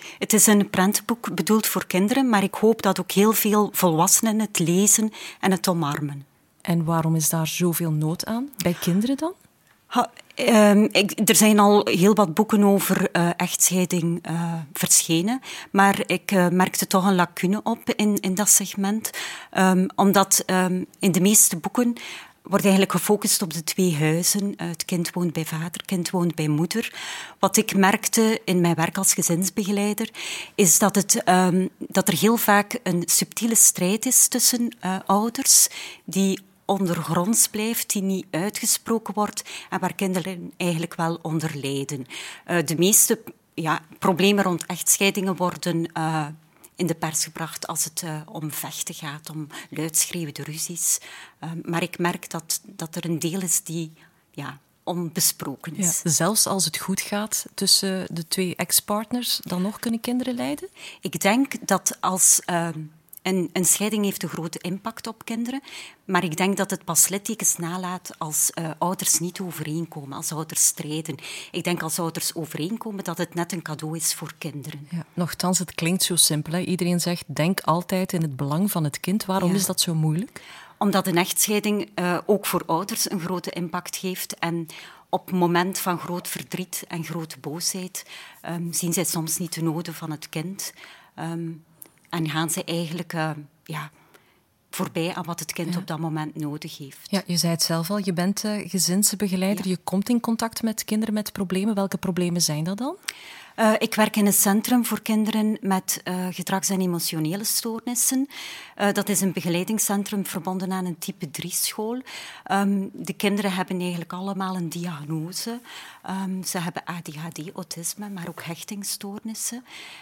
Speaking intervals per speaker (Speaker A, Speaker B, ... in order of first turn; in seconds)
Speaker A: 0.2-6.3, 9.9-56.0, 61.0-74.9, 79.4-79.7, 80.8-93.9, 94.7-97.2, 103.6-119.6
Speaker B: 6.7-9.3, 55.8-60.7, 74.9-80.4, 97.1-103.0